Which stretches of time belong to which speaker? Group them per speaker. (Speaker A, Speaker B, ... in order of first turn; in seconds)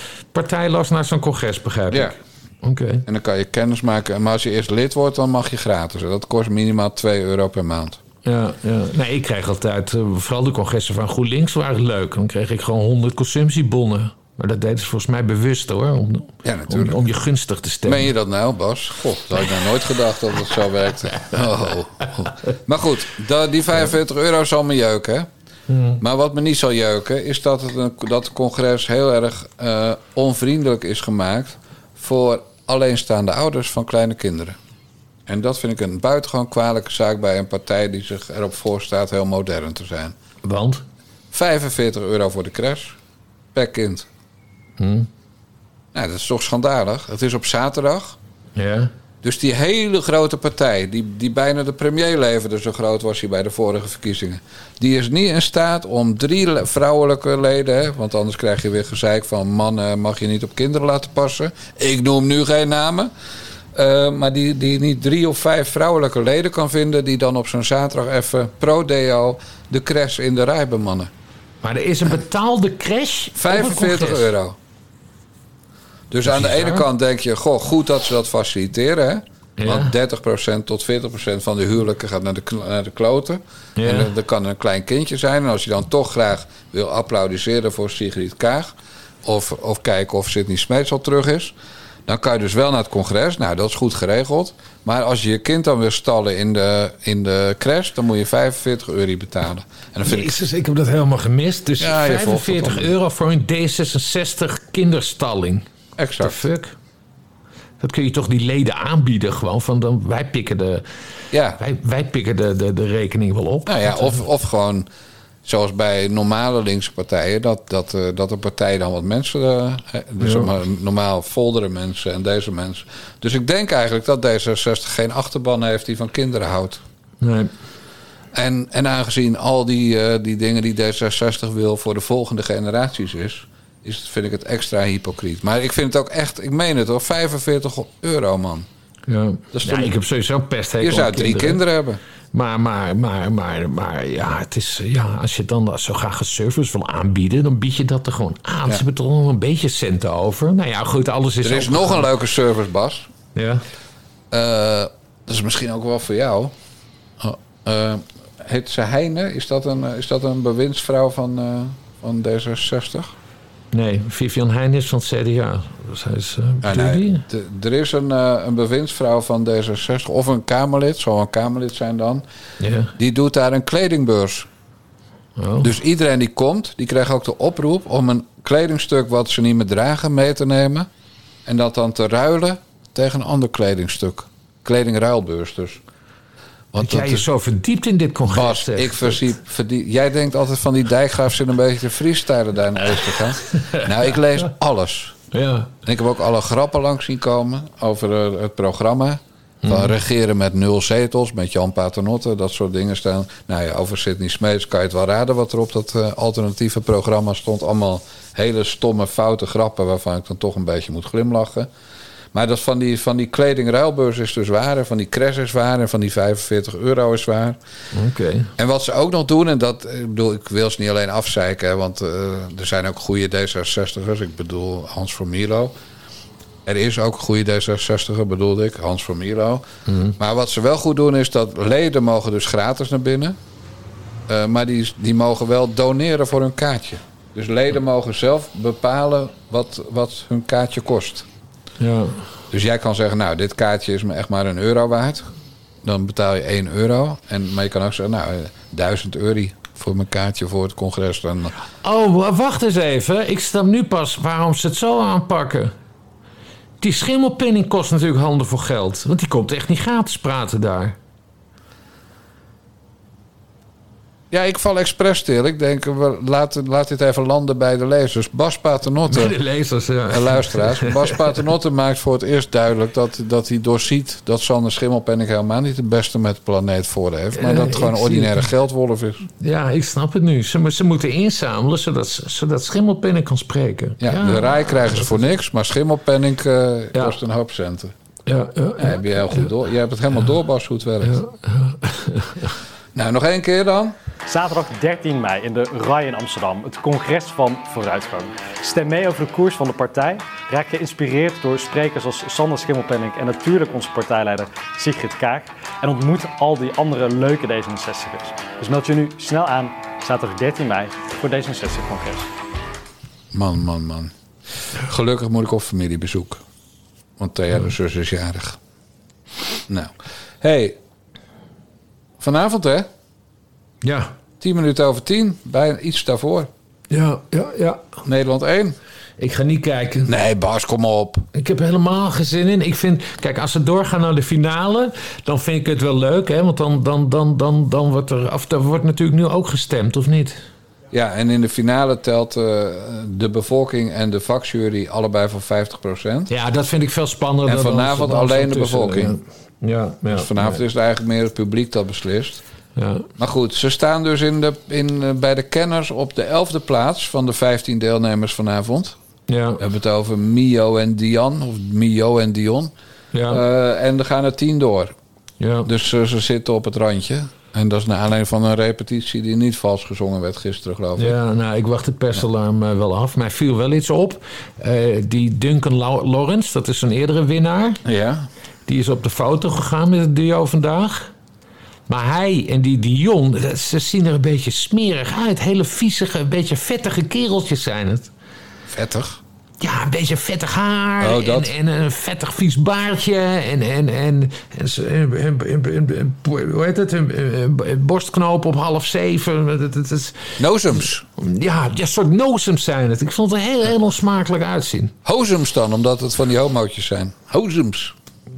Speaker A: 0.3-3.0, 8.2-18.1, 25.7-26.0, 40.4-40.8, 44.8-45.1, 48.6-48.9, 71.6-74.3, 76.2-76.9, 79.6-79.9, 83.8-84.1, 100.0-105.7, 106.2-106.8, 107.8-110.8, 111.6-114.2, 120.2-120.5, 127.2-127.5, 139.1-141.6, 142.3-152.1, 153.3-153.6, 163.7-167.2, 172.6-172.9, 175.4-175.7, 186.8-189.2, 193.5-193.9, 195.3-195.7, 199.6-199.9, 217.9-218.5, 229.9-230.2, 241.8-242.2, 251.8-255.7, 256.8-261.0, 269.1-271.3, 277.4-278.5, 279.4-285.1, 288.3-289.5, 291.0-292.6, 323.8-324.1, 326.9-327.9, 329.2-330.1, 331.3-340.4, 346.3-350.6, 352.8-353.1, 359.3-359.6, 363.1-363.4, 365.4-365.7, 371.0-377.8, 378.7-381.1, 381.9-388.1, 389.6-400.3, 401.2-404.9
Speaker B: 3.0-8.0, 16.4-17.0, 17.9-25.3, 26.0-34.6, 35.3-40.2, 41.3-43.0, 43.5-44.1, 45.9-48.2, 49.2-63.1, 63.7-71.1, 73.4-74.6, 76.1-88.7, 89.2-91.5, 92.1-100.4, 101.8-102.9, 106.0-106.4, 111.3-111.6, 113.7-114.9, 115.5-126.8, 128.3-138.7, 139.5-139.9, 140.8-142.0, 151.4-153.1, 154.3-156.5, 157.2-163.1, 166.6-172.2, 173.0-174.5, 175.6-180.9, 181.4-185.8, 186.7-187.3, 188.3-195.2, 195.8-211.7, 212.3-217.6, 218.6-225.7, 226.7-233.4, 234.3-241.3, 242.5-245.3, 245.8-251.5, 264.3-269.4, 270.1-279.3, 284.0-287.9, 288.8-291.2, 292.9-294.0, 313.3-314.1, 314.7-316.4, 317.2-318.6, 319.7-320.8, 322.2-322.9, 324.4-326.5, 328.0-328.8, 330.1-331.2, 340.9-346.3, 347.5-349.2, 350.1-352.4, 353.2-359.0, 359.6-362.7, 363.3-365.0, 365.6-371.2, 377.9-378.3, 388.7-389.2, 391.0-391.5, 400.4-401.1, 405.1-407.9
Speaker C: 294.3-312.3